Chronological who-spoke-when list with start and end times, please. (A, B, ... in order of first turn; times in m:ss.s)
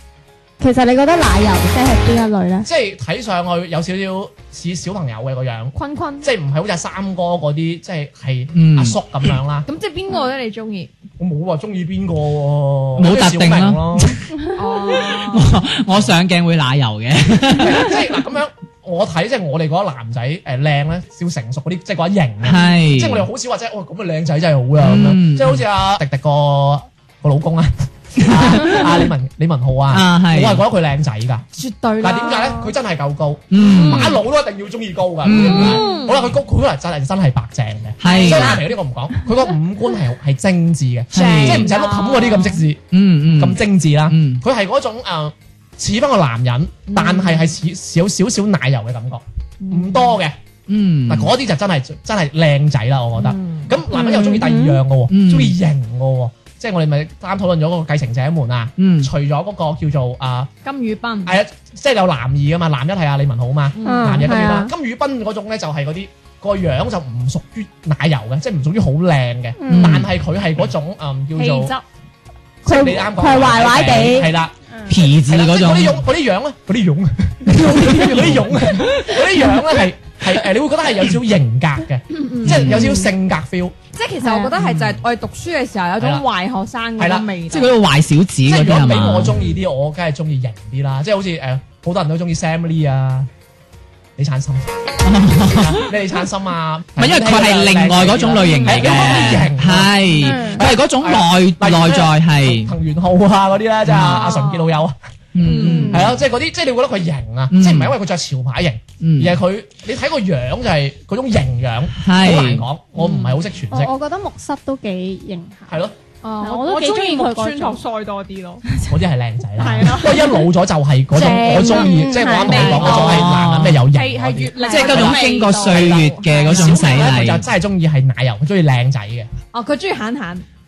0:00.6-0:02.7 A
0:02.6-0:09.7 B
0:05.7-0:06.3 C
0:08.5-0:09.3 D
0:09.7-0:10.9 C
0:11.2-0:14.2 B
0:13.0-0:18.0 D
0:14.5-0:15.7 C
0:17.5-0:31.4 B
0:22.4-0:23.3 D
0:24.8-0:25.6 D
0:28.2-0:29.1 D
0:29.9-0:30.6 D
0:31.6-0:32.7 C
0:32.0-0:50.4 B
0:33.5-0:34.2 D
0:33.6-0:34.2 C
0:35.2-0:35.8 D
0:35.3-0:36.4 C
0:38.0-0:38.7 D
0:38.0-0:38.7 C
0:41.1-0:41.7 D
0:41.1-0:42.6 C
0:42.9-0:44.4 D
0:46.9-0:47.5 C
0:49.6-0:50.2 C
0:50.7-0:51.3 D
0:51.1-1:00.5 B
0:53.2-0:53.8 C
0:53.9-0:54.8 A
0:55.1-0:55.6 D
0:58.8-0:59.1 D
1:00.6-1:01.4 C
1:01.2-1:11.7 B
1:03.7-1:04.3 C
1:03.8-1:04.7 A
1:09.6-1:10.0 A
1:09.7-1:10.1 D
1:11.3-1:11.8 C
1:12.6-1:14.5 B
1:12.6-1:15.0 A
1:14.9-1:16.0 D
1:15.1-1:23.7 B
1:17.5-1:19.1 D
1:17.7-1:18.2 A
1:22.1-1:22.7 C
1:22.4-1:23.0 D
1:23.9-1:27.8 C
1:24.2-1:24.5 A
1:24.6-1:25.0 D
1:26.0-1:26.2 B
1:27.0-1:27.3 B
1:27.5-1:29.4 D
1:28.4-1:33.3 B
1:34.2-1:34.8 B
1:35.0-1:35.9 D
1:35.6-1:45.0 B
1:37.0-1:42.7 D
1:38.4-1:39.4 C
1:40.2-1:40.6 A
1:43.8-1:44.4 D
1:44.3-1:44.6 A
1:45.3-1:46.2 D
1:45.4-1:46.0 C
1:45.6-1:46.0 A
1:45.9-1:53.9 B
1:47.5-1:47.9 D
1:49.0-1:49.4 D
1:52.0-1:52.6 D
1:53.0-1:55.8 A
1:55.7-1:55.9 B
1:56.2-1:58.6 C
1:56.4-1:57.8 A
1:58.9-2:09.3 B
1:59.6-2:00.1 C
1:59.6-2:00.4 A
2:01.1-2:03.4 C
2:01.2-2:03.0 A
2:02.8-2:03.8 D
2:03.9-2:07.2 C
2:04.6-2:07.4 D
2:09.5-2:10.4 C